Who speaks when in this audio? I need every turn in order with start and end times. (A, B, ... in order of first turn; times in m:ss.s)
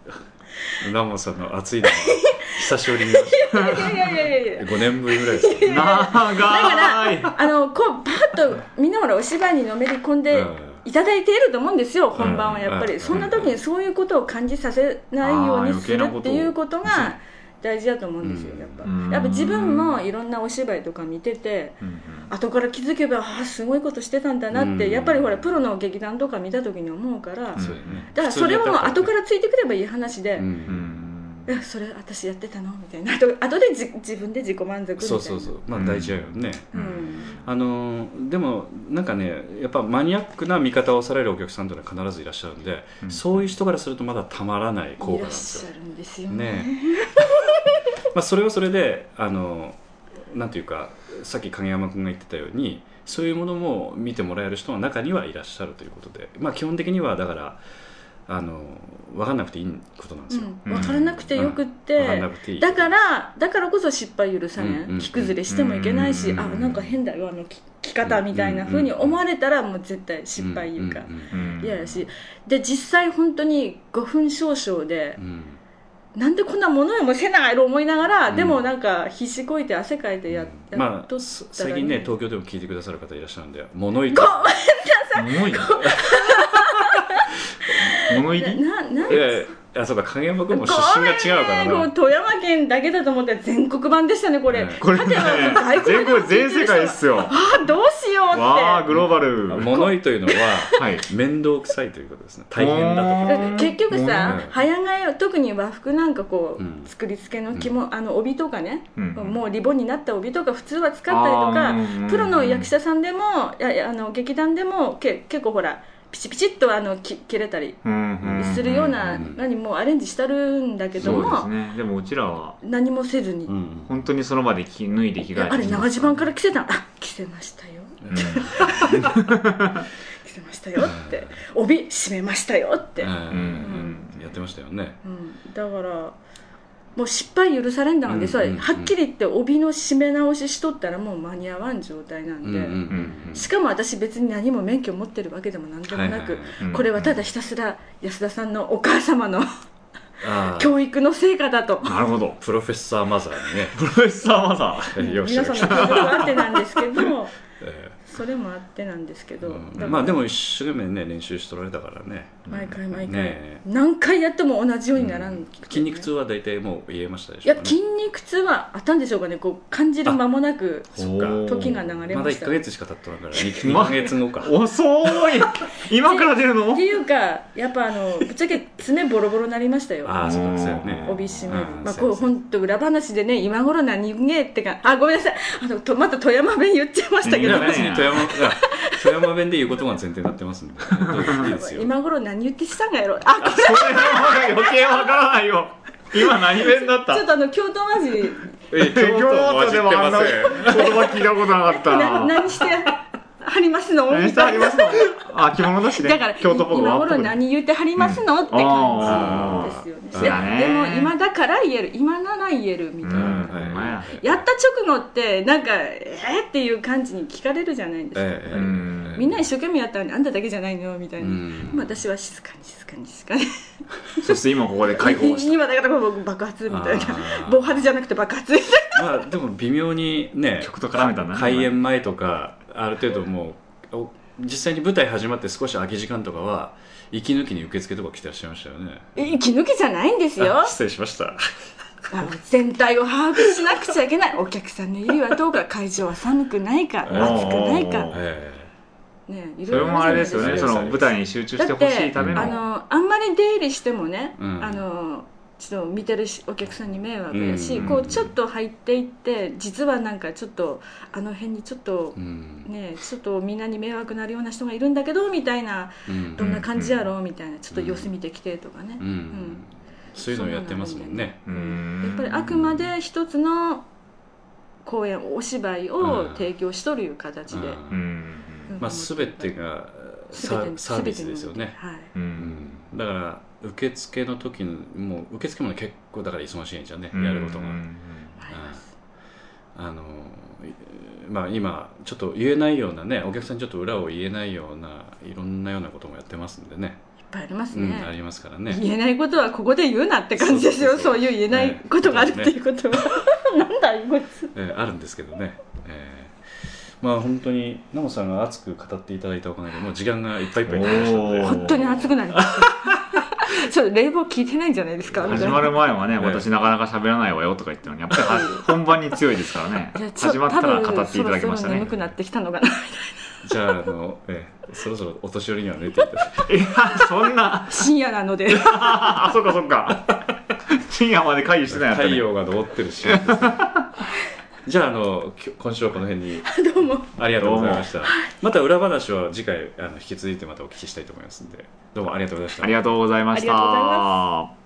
0:00.8-0:06.0 A
0:01.8-0:30.5 B
0:03.6-0:03.9 C
0:05.7-0:07.4 C
0:10.3-0:10.8 A
0:12.2-0:13.5 A
0:12.2-0:13.5 C
0:15.2-0:17.1 C
0:18.2-0:18.9 A
0:18.8-0:20.0 C
0:21.8-0:22.3 C
0:24.5-0:25.5 A
0:27.6-0:28.1 C
0:27.6-0:29.1 A
0:30.4-0:31.1 A
0:30.7-0:31.5 C
0:31.5-0:35.6 B
0:35.0-0:36.8 A
0:35.7-0:36.2 C
0:36.7-0:37.4 C
0:36.7-0:37.4 B
0:37.4-0:45.7 A
0:43.0-0:43.4 C
0:45.0-0:47.9 B
0:46.3-0:47.2 A
0:48.0-0:57.6 A
0:58.3-1:03.0 A
1:00.3-1:15.2 B
1:00.7-1:01.1 C
1:04.6-1:05.4 A
1:05.5-1:06.9 C
1:08.0-1:09.2 A
1:10.4-1:11.9 A
1:11.3-1:11.8 C
1:15.2-1:15.6 A
1:16.2-1:22.1 B
1:18.3-1:18.6 A
1:20.3-1:24.5 A
1:24.1-1:29.4 B
1:25.2-1:26.0 C
1:27.9-1:29.2 C
1:29.1-1:31.9 A
1:30.5-1:40.8 B
1:34.5-1:34.8 A
1:34.8-1:37.4 C
1:38.3-1:39.7 C
1:38.9-1:43.7 A
1:40.7-1:41.1 C
1:42.6-1:44.4 C
1:43.2-1:57.8 B
1:44.2-1:44.6 A
1:46.6-1:46.9 A
1:49.0-1:49.4 C
1:51.1-1:52.7 C
1:57.8-1:59.2 C
1:58.2-1:59.4 A
1:58.3-2:01.5 B
2:01.0-2:02.6 C
2:01.0-2:01.4 A
2:02.6-2:03.5 B
2:03.5-2:03.9 A
2:03.9-2:06.3 C
2:05.4-2:09.2 B
2:08.0-2:08.9 A
2:08.1-2:09.9 C
2:10.2-2:14.0 B
2:10.8-2:11.3 A
2:13.0-2:15.0 A
2:13.3-2:14.1 C
2:15.0-2:16.2 B
2:17.0-2:29.5 B
2:18.1-2:18.9 A
2:22.4-2:23.5 A
2:22.9-2:23.2 C
2:25.9-2:26.6 A
2:26.6-2:26.9 C
2:30.2-2:30.7 A
2:30.4-2:32.0 B
2:31.8-2:32.4 C
2:32.4-2:33.8 A
2:33.7-2:35.0 C
2:34.9-2:36.4 A
2:35.0-2:37.3 B
2:35.6-2:37.0 C
2:37.6-2:38.0 A
2:38.1-2:40.2 B
2:39.5-2:43.6 A
2:42.5-2:42.8 C
2:42.5-2:46.1 B
2:45.0-2:47.8 A
2:47.4-2:52.6 B
2:51.0-2:51.5 A
2:51.0-2:51.8 C
2:52.1-2:54.5 A
2:53.6-2:56.9 C
2:56.0-3:00.3 B
3:00.0-3:02.3 A
3:00.2-3:01.4 C
3:01.0-3:09.1 B
3:07.2-3:08.4 C
3:07.4-3:11.9 A
3:10.9-3:11.5 C
3:11.3-3:15.2 B
3:13.4-3:17.3 C
3:16.2-3:18.5 B
3:18.7-3:21.0 A
3:18.7-3:22.6 C
3:20.4-3:25.2 B
3:24.1-3:27.4 C
3:25.9-3:43.5 B
3:28.0-3:31.1 C
3:29.0-3:30.5 A
3:33.0-3:34.2 C
3:33.1-3:34.2 A
3:38.2-3:39.5 A
3:38.5-3:39.2 C
3:41.2-3:41.9 A
3:44.2-3:45.6 C
3:44.9-3:49.2 B
3:46.7-3:47.8 A
3:49.0-3:59.3 A
3:50.6-3:51.7 C
3:59.2-4:00.8 B
4:00.4-4:01.4 A
4:02.1-4:08.2 B
4:07.1-4:08.7 A
4:07.1-4:08.2 C
4:09.3-4:10.8 B
4:09.7-4:11.2 A
4:09.7-4:12.6 C
4:11.6-4:29.6 B
4:12.2-4:12.6 A
4:14.4-4:14.8 A
4:17.3-4:18.3 A
4:22.2-4:22.7 A
4:26.1-4:26.6 A
4:26.4-4:26.9 C
4:27.7-4:28.1 A
4:29.0-4:31.4 A
4:30.3-4:33.9 B
4:31.5-4:32.6 C
4:32.3-4:32.8 A
4:34.8-4:37.8 B
4:36.0-4:36.5 A
4:37.5-4:38.1 A
4:37.9-4:38.7 C
4:38.7-4:39.6 B
4:38.8-4:41.8 A
4:40.3-4:42.1 B
4:42.1-4:42.6 C
4:42.4-4:47.8 A
4:47.1-4:48.4 C
4:48.4-4:48.9 B
4:48.5-4:48.8 A
4:49.8-4:57.0 A
4:57.3-4:58.1 B
4:57.7-4:58.8 A
4:58.7-5:04.5 B
5:00.4-5:02.6 A
5:04.5-5:12.0 A
5:10.7-5:12.0 C
5:11.4-5:15.8 B
5:15.2-5:15.6 A
5:15.2-5:21.9 C
5:16.2-5:16.5 A
5:18.3-5:18.6 B
5:20.0-5:23.4 B
5:23.4-5:26.5 A
5:26.5-5:27.9 C
5:27.7-5:29.2 B
5:28.5-5:32.3 C
5:31.7-5:33.7 A
5:33.0-5:34.0 C
5:34.6-5:42.8 A
5:36.4-5:37.1 B
5:37.4-5:37.9 C
5:38.0-5:38.3 B
5:42.6-5:44.5 C
5:43.3-5:44.2 B